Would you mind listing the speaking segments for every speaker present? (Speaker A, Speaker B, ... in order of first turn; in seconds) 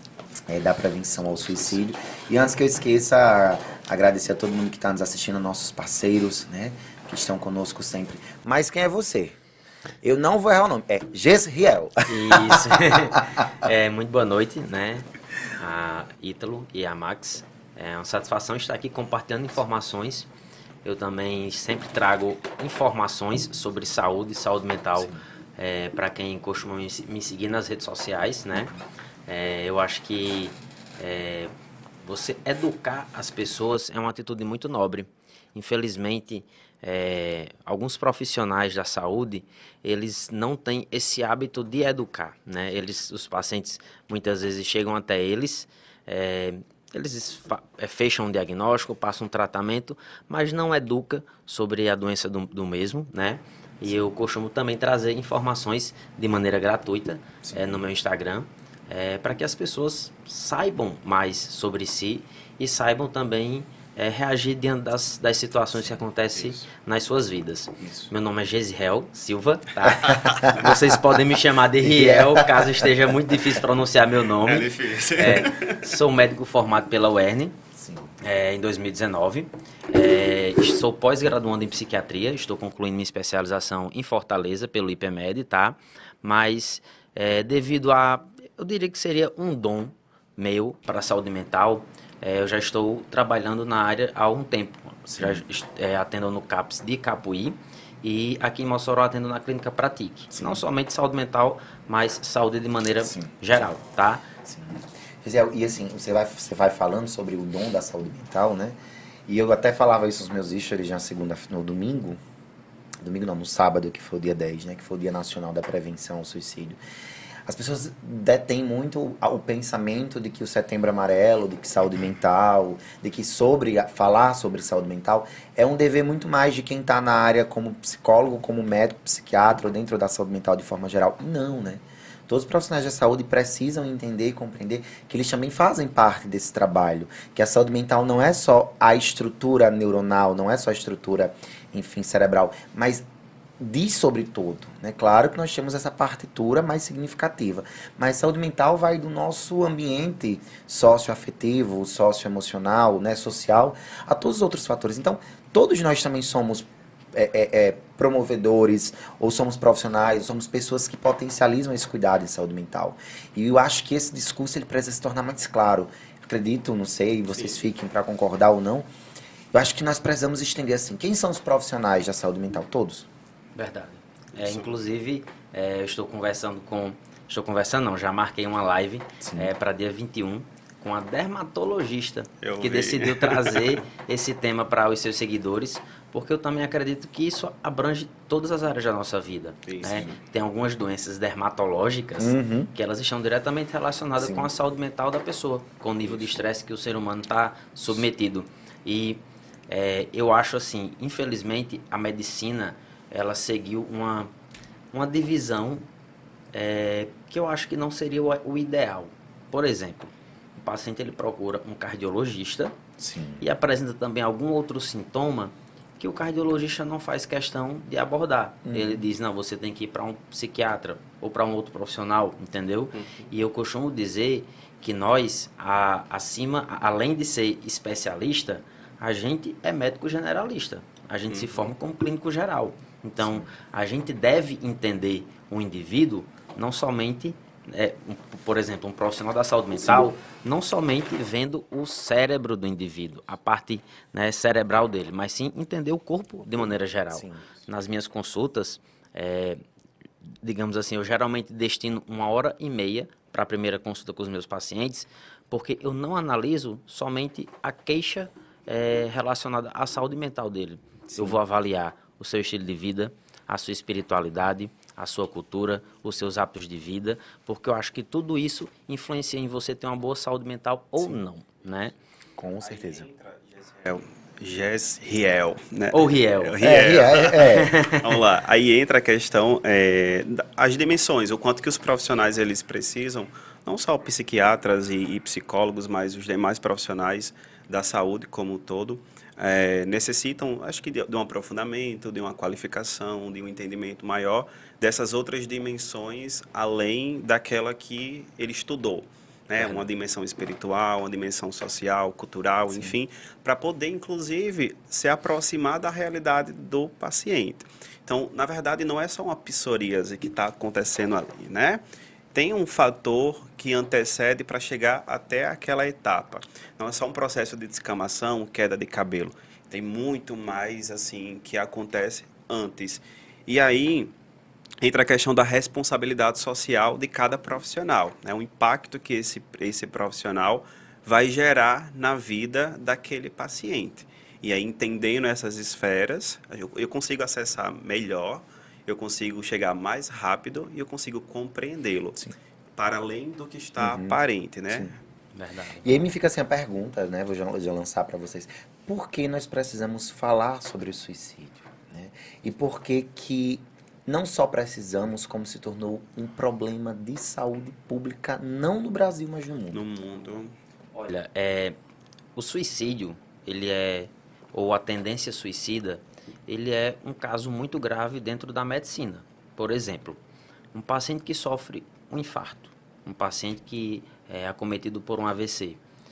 Speaker A: 0.5-9.4, 10.0-13.5, 28.5-28.8, 57.4-57.8, 67.8-68.1, 69.9-70.5, 71.8-72.9, 77.8-78.2, 95.1-95.4, 100.3-100.6, 103.0-103.6, 104.4-112.2, 113.0-116.8, 117.5-143.0, 143.6-168.9, 169.5-173.1, 179.2-179.5, 192.2-192.7, 194.2-194.5, 213.0-213.4, 218.7-219.0, 233.2-233.5, 246.5-247.4, 261.1-261.4, 272.4-273.1, 276.6-277.7, 343.8-344.2, 345.8-359.8
Speaker B: 12.1-20.3, 20.8-28.7, 29.3-77.6, 78.2-104.3, 173.5-204.3, 204.9-205.8, 206.5-212.7, 213.4-249.6, 250.4-271.9, 275.9-276.6, 277.4-278.1, 345.3-346.0, 360.9-361.8, 362.4-370.2, 370.7-375.8
Speaker C: 74.4-75.9, 167.3-167.6, 174.4-174.7, 182.4-183.8, 189.7-190.1, 196.1-196.3, 222.9-223.3, 231.3-231.8, 272.6-311.8, 312.3-324.1, 324.8-345.0, 359.7-360.5